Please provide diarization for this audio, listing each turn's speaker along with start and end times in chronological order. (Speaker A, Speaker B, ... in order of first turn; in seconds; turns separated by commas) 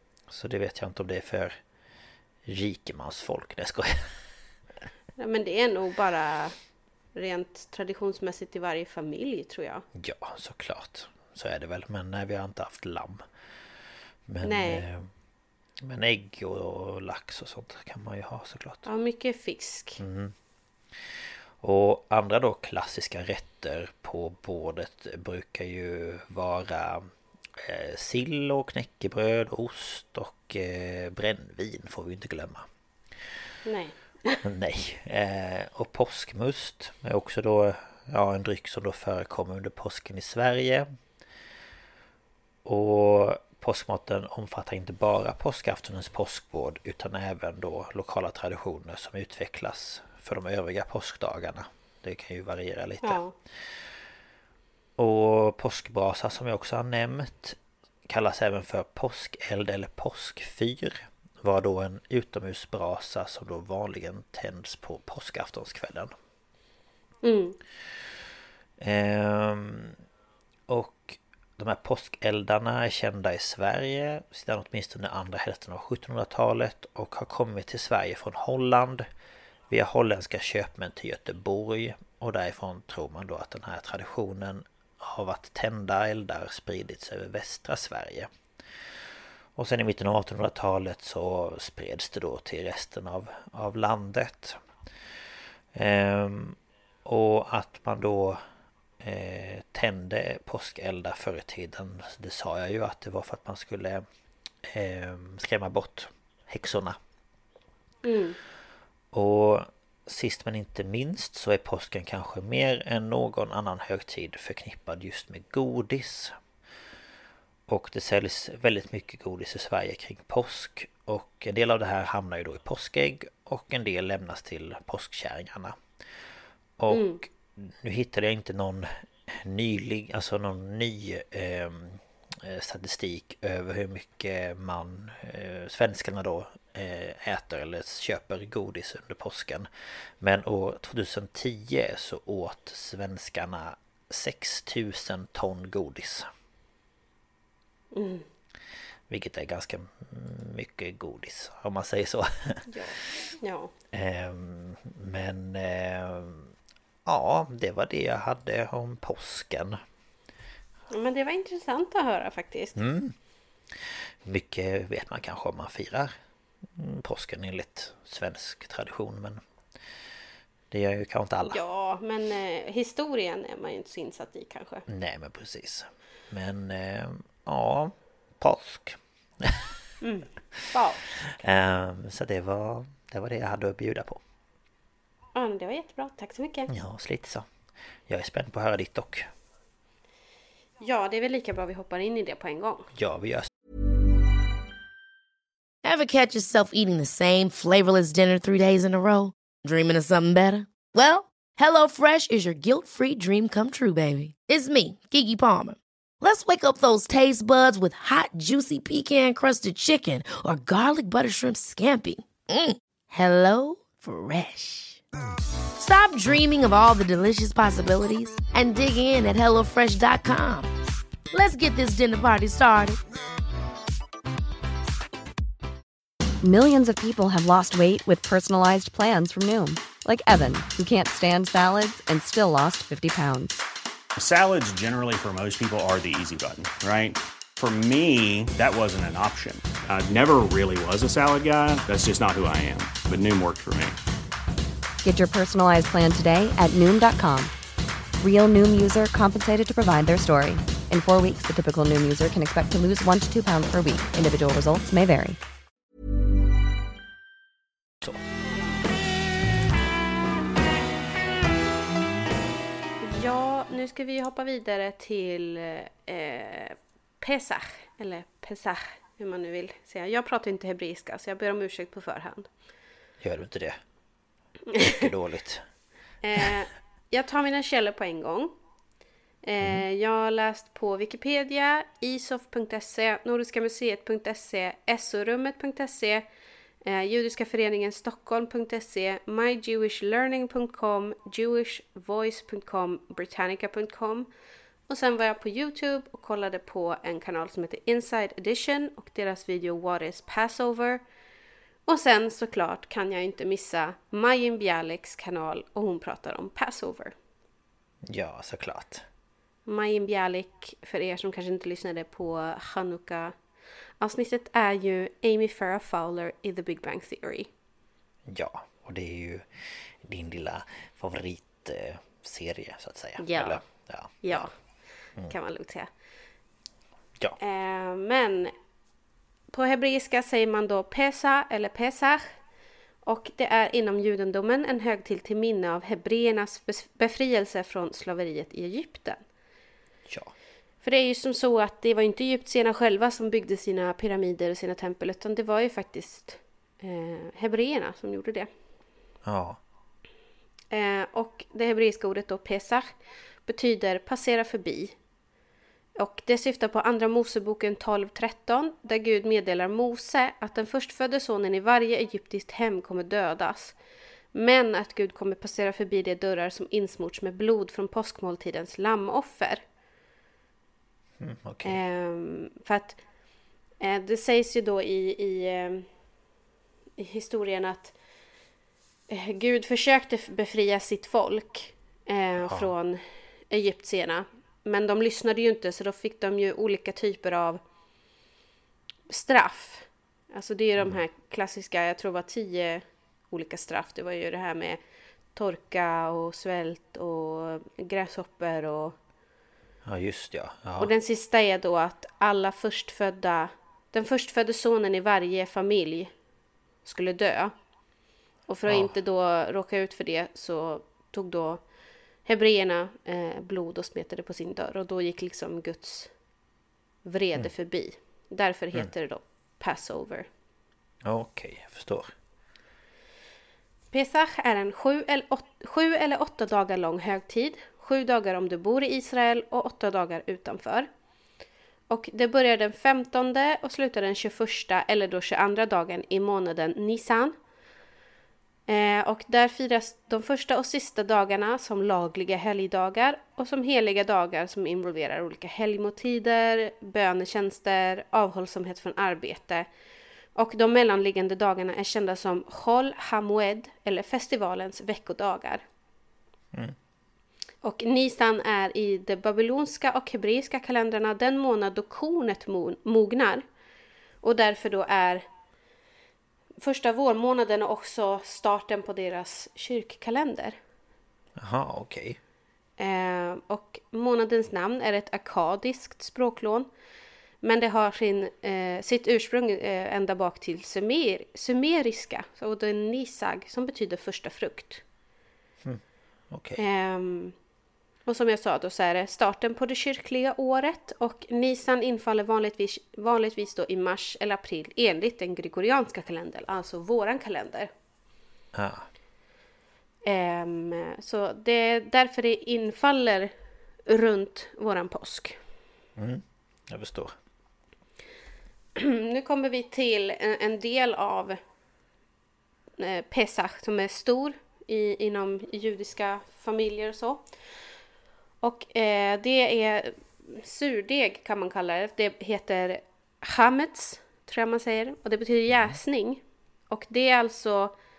Speaker A: 0.3-1.5, Speaker A: 2.5-4.2, Speaker B: 5.2-6.6, Speaker B: 7.1-9.8, Speaker A: 9.9-13.2, Speaker A: 14.3-15.1, Speaker B: 14.4-14.8, Speaker A: 15.8-18.9, Speaker B: 18.8-20.0, Speaker A: 20.0-20.3, Speaker A: 21.6-32.6, Speaker B: 33.6-34.4, Speaker A: 34.4-40.9, Speaker A: 42.6-53.2, Speaker B: 53.0-53.3, Speaker A: 55.0-66.1, Speaker B: 67.2-67.6, Speaker A: 68.8-70.0, Speaker A: 70.7-79.1, Speaker A: 79.7-88.3, Speaker A: 89.5-94.6, Speaker A: 95.7-98.4, Speaker A: 99.0-104.0, Speaker A: 104.6-107.0, Speaker B: 108.0-108.4, Speaker A: 109.1-116.3, Speaker A: 117.7-125.8, Speaker A: 126.8-139.7, Speaker B: 126.9-127.2, Speaker A: 140.2-146.3, Speaker B: 147.9-148.2, Speaker A: 149.1-152.7, Speaker B: 152.7-153.7, Speaker A: 153.9-156.5, Speaker A: 157.0-159.8, Speaker B: 160.9-162.8, Speaker A: 162.8-163.1, Speaker A: 163.7-166.1, Speaker A: 166.7-169.4, Speaker A: 170.7-171.6, Speaker B: 171.5-174.8, Speaker A: 174.9-179.7, Speaker B: 180.0-181.2, Speaker A: 181.4-184.2, Speaker B: 185.3-186.7, Speaker A: 186.7-187.5, Speaker A: 188.1-189.3, Speaker B: 190.8-192.9, Speaker A: 192.9-193.5, Speaker C: 195.8-215.0, Speaker C: 215.8-220.7, Speaker C: 221.3-223.0, Speaker D: 226.4-233.6, Speaker E: 234.2-244.0, Speaker D: 245.0-247.5, Speaker D: 248.2-255.4, Speaker B: 263.0-272.5, Speaker A: 273.2-273.8, Speaker B: 274.7-275.1, Speaker A: 274.8-275.6, Speaker B: 276.2-278.5, Speaker B: 279.4-286.2, Speaker B: 286.8-294.3, Speaker B: 294.9-301.0, Speaker B: 301.9-307.1, Speaker A: 308.1-309.1, Speaker B: 309.6-313.3, Speaker B: 314.0-317.5, Speaker A: 318.3-324.5, Speaker B: 323.2-323.6, Speaker B: 324.2-324.5, Speaker B: 325.3-325.9, Speaker B: 327.4-328.5, Speaker B: 329.5-332.3, Speaker B: 333.0-339.2, Speaker A: 340.1-340.3, Speaker B: 340.8-348.5, Speaker A: 349.2-349.6, Speaker B: 350.7-352.9, Speaker B: 353.4-354.9, Speaker B: 356.0-363.7, Speaker B: 364.3-369.6, Speaker A: 371.2-371.8, Speaker B: 371.6-373.0, Speaker B: 373.8-375.9, Speaker B: 377.0-377.9, Speaker B: 379.1-387.6, Speaker A: 382.4-382.7, Speaker B: 389.1-394.8, Speaker B: 395.3-398.9, Speaker A: 399.9-400.9, Speaker B: 400.8-406.1, Speaker B: 406.8-407.5, Speaker B: 408.5-411.6, Speaker A: 408.7-408.9, Speaker B: 412.2-416.1, Speaker B: 417.0-420.3, Speaker A: 421.0-422.1, Speaker B: 423.9-430.9, Speaker B: 431.9-437.4, Speaker B: 438.7-449.7, Speaker B: 450.4-455.6, Speaker B: 457.6-463.4, Speaker B: 464.2-465.2, Speaker B: 466.6-470.6, Speaker A: 471.4-472.2, Speaker B: 472.8-476.7, Speaker B: 477.4-484.8, Speaker A: 485.6-486.6, Speaker B: 486.6-487.3, Speaker B: 488.1-497.7, Speaker A: 498.5-498.9, Speaker B: 500.0-503.3, Speaker B: 503.9-505.4, Speaker A: 505.9-507.1, Speaker B: 508.8-511.4, Speaker B: 512.8-517.2, Speaker B: 518.4-527.7